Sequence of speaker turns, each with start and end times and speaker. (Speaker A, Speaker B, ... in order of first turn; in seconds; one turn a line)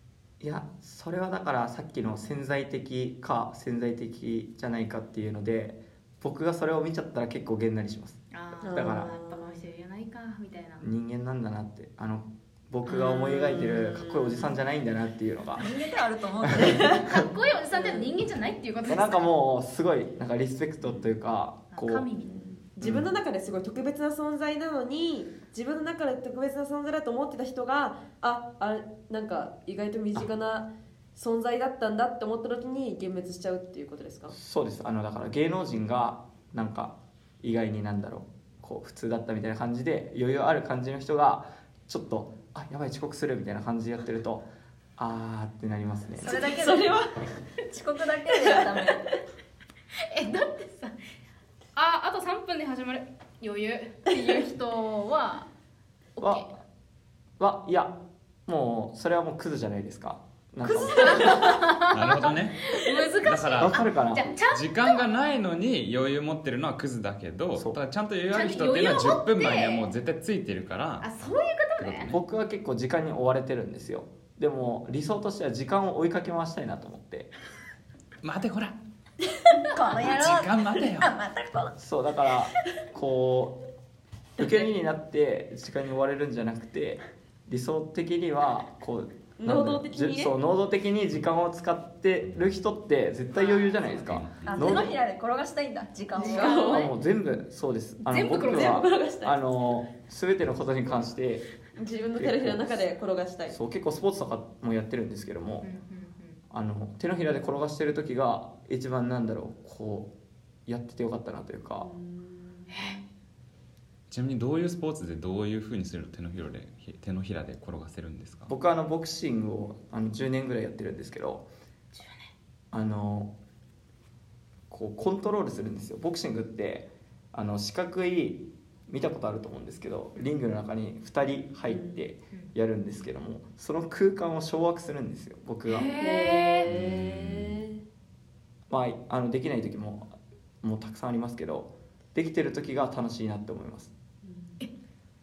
Speaker A: 0.4-9.1
Speaker B: 8.3-10.8
Speaker C: 8.6-9.7
Speaker A: 10.8-15.7
Speaker C: 12.8-14.6
Speaker D: 15.6-17.0
Speaker A: 16.4-17.2
Speaker C: 16.6-17.0
Speaker B: 16.8-19.3
Speaker C: 17.7-18.1
Speaker A: 18.9-22.1
Speaker B: 21.7-22.5
Speaker C: 22.2-34.4
Speaker A: 22.8-23.1
Speaker A: 34.3-46.5
Speaker D: 46.2-47.0
Speaker C: 46.3-47.2
Speaker D: 47.7-49.1
Speaker B: 50.0-51.0
Speaker B: 51.8-55.5
Speaker B: 56.2-56.5
Speaker A: 56.2-56.6
Speaker A: 57.4-61.5
Speaker C: 60.7-61.7
Speaker B: 60.9-65.0
Speaker E: 61.8-63.8
Speaker A: 63.6-64.3
Speaker E: 64.5-71.1
Speaker B: 68.3-69.9
Speaker B: 71.0-72.1
Speaker E: 71.8-72.2
Speaker A: 72.1-77.3
Speaker E: 78.2-78.8
Speaker D: 79.5-81.8
Speaker E: 80.0-81.1
Speaker A: 81.8-83.6
Speaker A: 84.4-95.0
Speaker C: 89.4-90.3
Speaker B: 93.3-94.0
Speaker E: 94.1-94.6
Speaker D: 94.5-96.7
Speaker B: 94.5-94.9
Speaker C: 96.2-96.9
Speaker B: 96.2-96.9
Speaker A: 96.7-101.5
Speaker B: 98.0-98.8
Speaker C: 98.3-99.4
Speaker C: 101.8-103.6
Speaker A: 102.2-102.8
Speaker A: 103.5-105.7
Speaker B: 105.6-106.4
Speaker A: 106.5-110.1
Speaker A: 110.7-111.9
Speaker C: 111.8-112.8
Speaker B: 112.7-113.0
Speaker E: 114.1-118.5
Speaker A: 118.5-121.5
Speaker B: 121.9-122.2
Speaker A: 122.7-123.3
Speaker A: 124.7-135.9
Speaker C: 131.7-132.0
Speaker B: 135.7-136.7
Speaker C: 136.0-137.8
Speaker E: 136.7-137.6
Speaker A: 138.7-143.9
Speaker C: 144.2-144.6